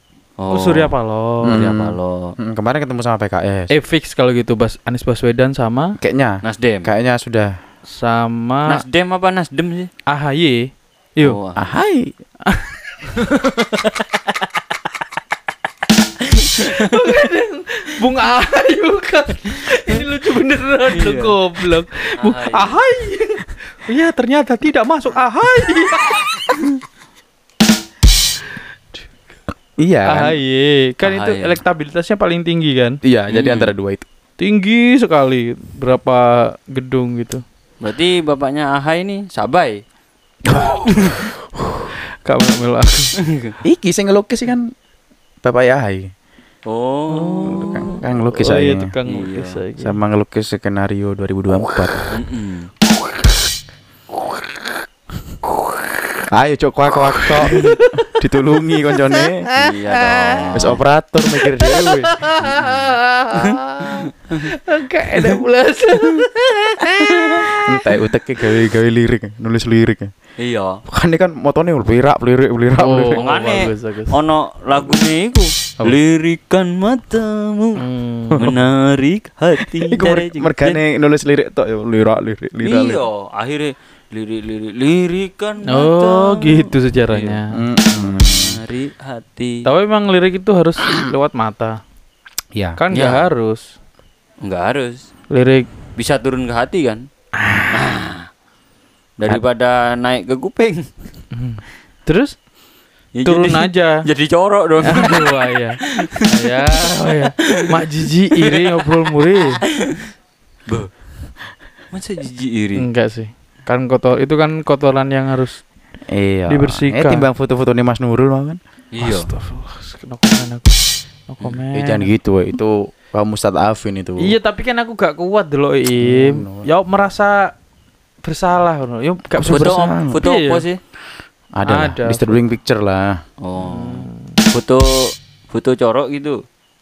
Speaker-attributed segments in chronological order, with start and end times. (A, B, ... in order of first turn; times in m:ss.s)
0:00.4-0:01.0 A
0:00.5-0:01.6 B
0:01.4-0:03.7 C
0:01.5-0:02.4 A
0:03.7-0:06.0 B
0:06.0-0:07.6 C
0:06.4-0:06.9 A
0:07.9-0:08.8 B
0:08.7-0:09.9 A
0:10.1-0:11.4 B
0:11.2-0:11.7 A
0:11.6-0:12.2 C
0:13.2-0:13.9 A
0:16.6-0:26.3 B
0:16.6-0:17.0 A
0:20.9-0:21.4 A
0:22.2-0:22.8 A
0:29.8-0:30.4 C
0:30.1-0:33.0 B
0:31.0-0:31.6 A
0:33.0-0:34.1 C
0:33.3-0:33.7 A
0:34.4-0:37.4 B
0:37.8-0:39.8 A
0:40.5-0:41.3 C
0:42.2-0:43.1 B
0:43.3-0:43.6 A
0:43.6-0:44.7 C
0:45.4-0:46.1 C
0:46.7-0:47.9 A
0:47.1-0:50.0 B
0:47.6-0:48.9 C
0:49.0-0:49.6 A
0:49.8-0:52.2 C
0:52.1-0:52.7 A
0:56.3-0:59.5 C
0:57.5-0:58.1 B
0:59.1-1:00.7 B
0:59.6-1:00.8 A
1:00.6-1:02.2 C
1:01.4-1:07.6 B
1:02.4-1:03.0 A
1:07.0-1:07.4 A
1:07.5-1:10.1 C
1:10.4-1:10.8 A
1:10.9-1:13.2 C
1:12.8-1:14.1 B
1:13.2-1:17.8 A
1:17.8-1:18.5 B
1:18.4-1:20.8 A
1:19.9-1:23.0 C
1:22.6-1:27.4 A
1:25.7-1:27.6 B
1:27.5-1:28.6 C
1:28.0-1:29.6 A
1:29.6-1:31.8 B
1:32.8-1:33.7 B
1:32.9-1:33.2 A
1:34.4-1:35.1 A
1:35.3-1:35.7 B
1:36.0-1:37.1 A
1:37.4-1:37.7 B
1:37.7-1:38.3 A
1:39.2-1:40.9 A
1:41.3-1:42.4 B
1:43.1-1:46.1 A
1:43.2-1:44.0 B
1:44.8-1:49.6 B
1:48.4-1:49.1 A
1:50.7-1:51.0 A
1:51.9-1:52.9 A
1:52.8-1:55.6 B
1:56.1-1:58.6 C
1:56.5-1:57.2 B
1:58.9-1:59.3 A
1:59.0-2:00.8 B
2:01.3-2:02.1 B
2:01.7-2:04.4 C
2:04.2-2:07.5 B
2:06.0-2:06.7 C
2:08.2-2:10.6 B
2:09.3-2:10.2 C
2:09.4-2:10.8 A
2:11.6-2:13.2 C
2:11.6-2:12.4 B
2:13.4-2:14.9 A
2:13.6-2:14.4 B
2:15.5-2:16.4 A